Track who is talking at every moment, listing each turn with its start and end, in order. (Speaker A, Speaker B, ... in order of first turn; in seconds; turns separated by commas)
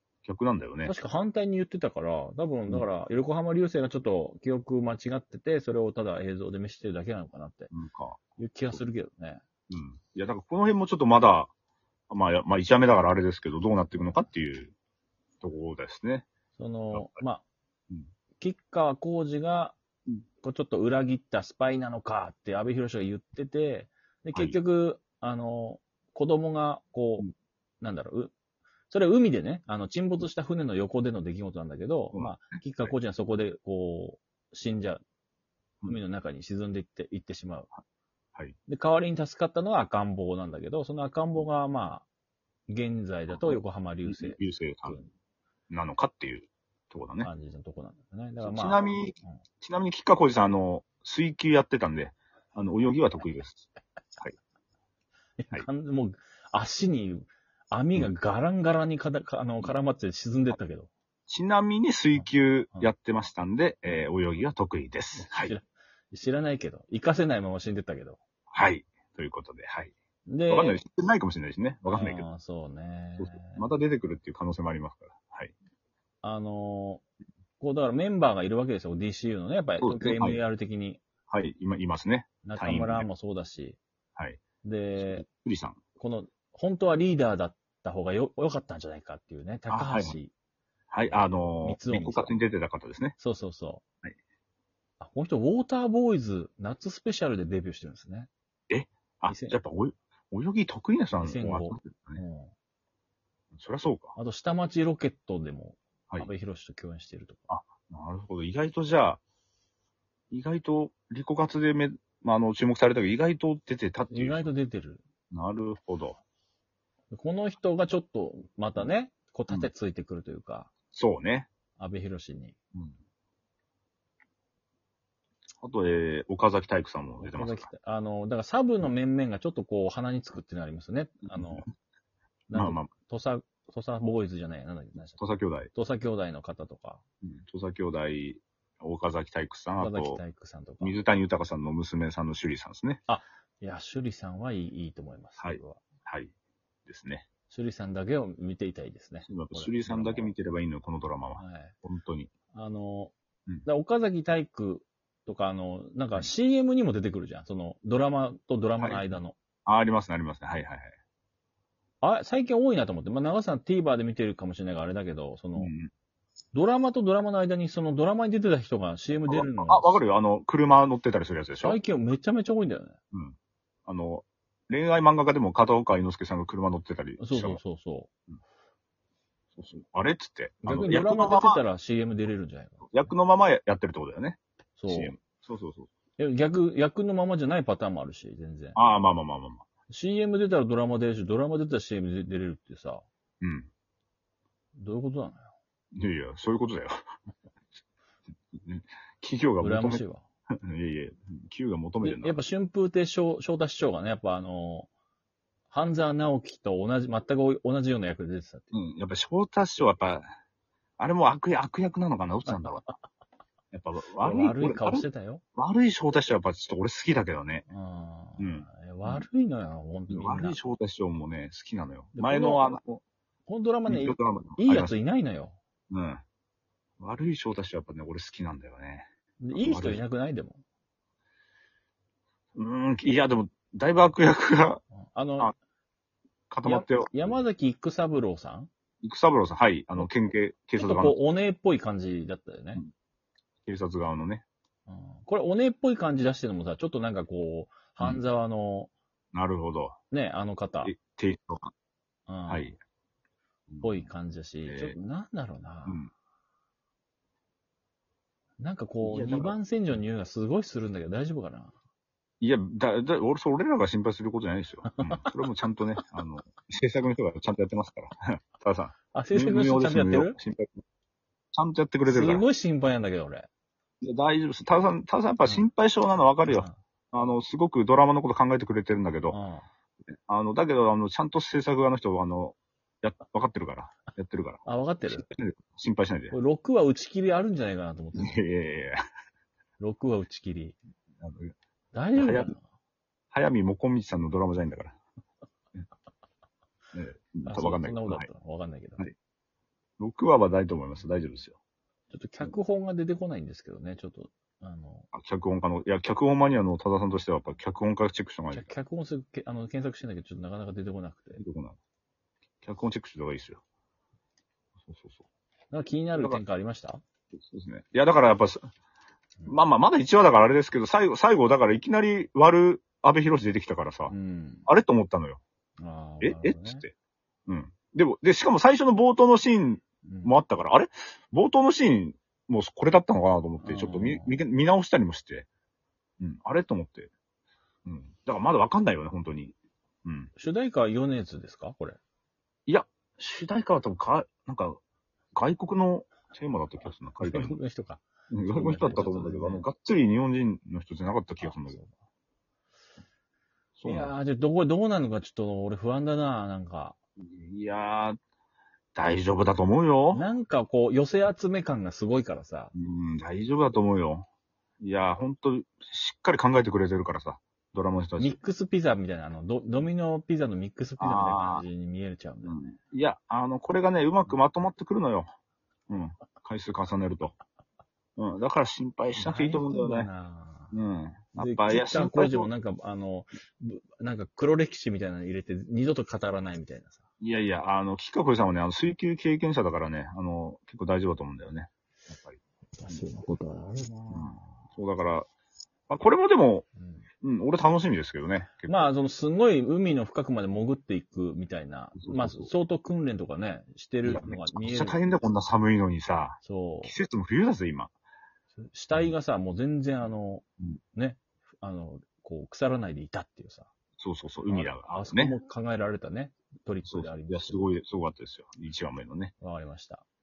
Speaker A: 0.2-0.9, Speaker B: 0.8-7.7, Speaker A: 7.7-8.8, Speaker B: 8.4-9.4, Speaker A: 9.7-11.5, Speaker A: 12.1-14.7, Speaker A: 15.4-16.3, Speaker B: 16.6-17.4, Speaker A: 16.9-17.2, Speaker B: 18.4-19.8, Speaker B: 20.4-27.3, Speaker A: 24.3-24.6, Speaker B: 27.8-28.3, Speaker B: 28.9-35.0, Speaker A: 32.1-33.0, Speaker B: 35.9-37.7, Speaker B: 38.7-42.1, Speaker B: 42.7-45.1, Speaker A: 43.3-45.0, Speaker A: 45.7-47.3, Speaker B: 47.2-48.8, Speaker A: 48.4-53.7, Speaker B: 55.4-60.9, Speaker A: 61.3-65.5, Speaker B: 62.2-62.9, Speaker B: 65.2-68.2, Speaker A: 68.5-69.9, Speaker B: 70.3-70.8, Speaker A: 70.5-72.3, Speaker B: 71.9-73.7, Speaker A: 73.2-75.5, Speaker B: 76.2-77.0, Speaker B: 77.6-81.0, Speaker A: 79.8-80.4, Speaker A: 81.3-83.1, Speaker B: 82.4-83.8, Speaker B: 84.6-85.3, Speaker A: 85.0-85.8, Speaker B: 86.0-90.3, Speaker A: 89.7-90.2, Speaker A: 90.9-93.2, Speaker B: 91.1-92.3, Speaker B: 93.2-93.8, Speaker B: 95.0-98.3, Speaker A: 98.7-102.2, Speaker B: 99.3-99.6, Speaker B: 101.2-102.5, Speaker A: 103.5-104.2, Speaker B: 104.2-107.4, Speaker A: 107.5-109.2, Speaker A: 110.3-114.5, Speaker B: 114.1-115.0, Speaker A: 115.3-116.2, Speaker B: 117.1-120.7, Speaker A: 120.9-121.5, Speaker B: 121.8-122.5, Speaker A: 125.6-127.7, Speaker B: 127.2-131.7, Speaker A: 131.3-131.6, Speaker B: 132.5-135.2, Speaker A: 132.5-132.9, Speaker A: 135.2-135.7, Speaker B: 135.7-137.0, Speaker A: 137.2-140.2, Speaker B: 139.8-141.0, Speaker A: 140.8-143.0, Speaker B: 143.1-145.8, Speaker A: 145.4-146.3, Speaker A: 146.9-147.3, Speaker B: 147.5-150.3, Speaker A: 149.2-152.3, Speaker B: 151.4-151.8, Speaker B: 152.5-153.1, Speaker B: 153.7-159.4, Speaker A: 158.8-159.1, Speaker A: 159.7-160.9, Speaker B: 162.0-165.7, Speaker A: 165.6-165.9, Speaker B: 166.5-170.0, Speaker A: 169.3-171.8, Speaker B: 171.6-173.0, Speaker A: 173.9-177.6, Speaker B: 177.2-178.1, Speaker A: 179.6-181.6, Speaker B: 180.6-183.1, Speaker A: 182.9-185.9, Speaker B: 184.8-185.2, Speaker B: 186.2-188.8, Speaker A: 188.8-189.7, Speaker B: 189.9-193.1, Speaker A: 193.4-193.7, Speaker B: 194.8-195.5, Speaker A: 195.9-197.0, Speaker A: 198.5-200.0, Speaker B: 199.6-200.2, Speaker A: 200.6-202.4, Speaker B: 202.0-204.9, Speaker B: 205.7-208.7, Speaker A: 208.7-210.3, Speaker A: 211.0-212.9, Speaker B: 212.5-212.9, Speaker A: 213.7-217.7, Speaker B: 214.2-215.4, Speaker B: 217.7-220.6, Speaker A: 218.4-219.2, Speaker A: 220.1-223.0, Speaker B: 222.2-222.8, Speaker B: 223.5-225.6, Speaker A: 223.9-224.9, Speaker A: 225.9-226.2, Speaker A: 227.0-230.0, Speaker B: 229.4-230.6, Speaker A: 232.6-234.8, Speaker B: 235.1-235.5, Speaker A: 236.5-237.4, Speaker B: 236.6-238.7, Speaker A: 239.0-241.2, Speaker B: 240.8-242.8, Speaker A: 243.7-244.4, Speaker B: 244.9-248.9, Speaker A: 249.3-250.0, Speaker B: 250.1-250.9, Speaker A: 250.8-251.7, Speaker B: 252.3-252.7, Speaker A: 252.5-252.8, Speaker A: 253.7-254.1, Speaker B: 253.8-256.0, Speaker A: 254.7-255.0, Speaker B: 258.6-261.8, Speaker A: 259.0-259.6, Speaker A: 262.4-270.8, Speaker B: 264.9-265.4, Speaker B: 269.1-270.4, Speaker A: 271.5-272.4, Speaker B: 272.1-273.5, Speaker A: 274.0-279.4, Speaker B: 276.5-276.8, Speaker B: 279.3-279.7, Speaker A: 280.3-286.4, Speaker B: 284.7-285.3, Speaker B: 286.3-288.4, Speaker A: 288.1-289.0, Speaker B: 289.8-290.8, Speaker A: 291.2-291.5, Speaker B: 291.9-292.6, Speaker A: 292.2-292.5, Speaker A: 293.3-295.0, Speaker A: 296.9-298.3, Speaker B: 297.4-299.0, Speaker A: 300.0-301.6, Speaker B: 302.1-305.1, Speaker A: 305.1-308.7, Speaker B: 308.5-311.4, Speaker A: 311.4-311.8, Speaker A: 312.6-313.6, Speaker A: 314.8-315.2, Speaker B: 315.7-317.0, Speaker A: 316.2-316.4, Speaker A: 317.4-318.6, Speaker A: 319.5-324.1, Speaker B: 324.1-324.7, Speaker A: 324.7-325.4, Speaker B: 325.8-326.8, Speaker A: 326.2-326.9, Speaker A: 327.5-335.5, Speaker B: 330.1-330.4, Speaker B: 333.6-334.4, Speaker A: 336.2-337.1, Speaker A: 337.9-340.3, Speaker B: 340.4-342.0, Speaker A: 342.7-344.8, Speaker A: 345.4-347.6, Speaker B: 347.2-349.7, Speaker A: 348.3-351.8, Speaker B: 351.4-351.9, Speaker A: 353.8-354.1, Speaker B: 353.9-357.0, Speaker A: 357.2-358.2, Speaker A: 358.9-360.3, Speaker B: 360.1-362.7, Speaker A: 362.8-364.3, Speaker A: 364.8-368.4, Speaker B: 368.2-372.6, Speaker A: 371.0-371.6, Speaker A: 372.4-375.3, Speaker A: 375.9-377.4, Speaker A: 378.2-380.1, Speaker B: 379.1-380.8, Speaker A: 380.7-382.5, Speaker B: 381.4-387.0, Speaker A: 387.2-393.0, Speaker B: 392.8-394.7, Speaker A: 394.1-395.3, Speaker A: 395.9-396.7, Speaker B: 396.8-397.1, Speaker A: 397.2-398.9, Speaker B: 398.7-405.0, Speaker A: 402.0-402.5, Speaker A: 404.0-407.9, Speaker B: 406.4-406.9, Speaker B: 408.6-413.7, Speaker A: 414.0-415.4, Speaker B: 414.5-417.6, Speaker A: 416.8-419.3, Speaker B: 419.4-420.0